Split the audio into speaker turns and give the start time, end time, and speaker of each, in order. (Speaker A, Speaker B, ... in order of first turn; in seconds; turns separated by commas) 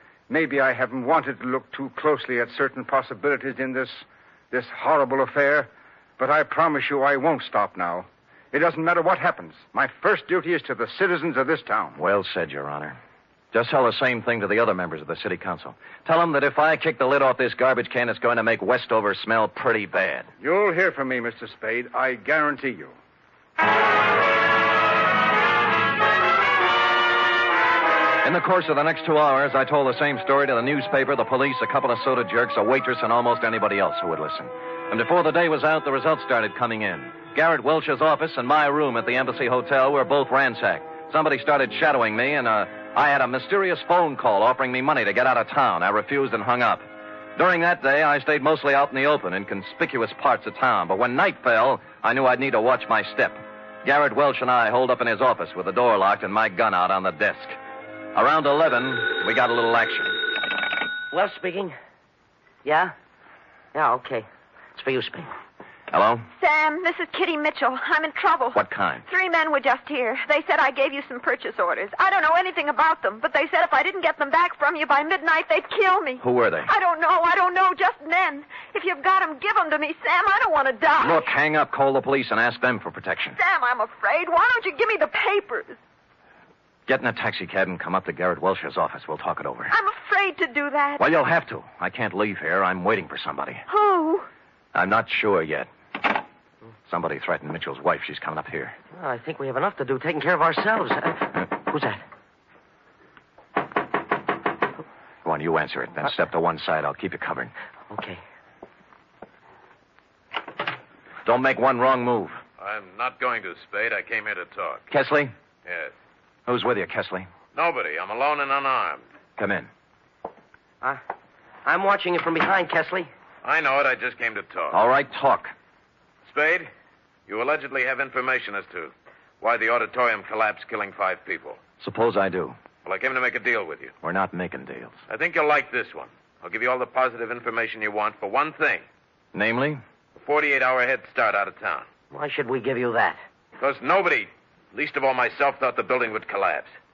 Speaker A: 0.3-12.0, Speaker B: 12.0-13.0, Speaker B: 13.5-20.3, Speaker A: 20.4-22.9, Speaker B: 28.2-57.6, Speaker B: 58.1-60.2, Speaker C: 61.1-61.7, Speaker C: 62.6-62.9, Speaker C: 63.7-65.3, Speaker B: 65.9-66.2, Speaker D: 66.4-81.3, Speaker B: 68.5-69.0, Speaker B: 76.2-76.7, Speaker B: 81.0-83.4, Speaker D: 83.4-85.8, Speaker B: 86.9-89.7, Speaker D: 89.7-91.1, Speaker B: 91.0-93.6, Speaker D: 93.7-94.3, Speaker B: 94.7-95.7, Speaker B: 96.9-98.8, Speaker C: 99.0-102.0, Speaker B: 105.2-107.5, Speaker C: 107.9-108.2, Speaker B: 111.2-112.4, Speaker E: 112.6-114.9, Speaker B: 114.9-115.3, Speaker E: 115.7-115.9, Speaker B: 116.5-117.3, Speaker E: 117.5-119.0, Speaker B: 119.4-119.7, Speaker C: 121.7-123.1, Speaker E: 123.4-124.8, Speaker B: 124.7-125.5, Speaker E: 126.3-126.7, Speaker E: 127.3-131.6, Speaker B: 131.8-132.6, Speaker E: 132.8-133.9, Speaker B: 134.0-135.0, Speaker E: 135.1-138.8, Speaker B: 139.3-139.8, Speaker E: 140.2-141.9, Speaker C: 142.1-143.2, Speaker E: 143.6-146.7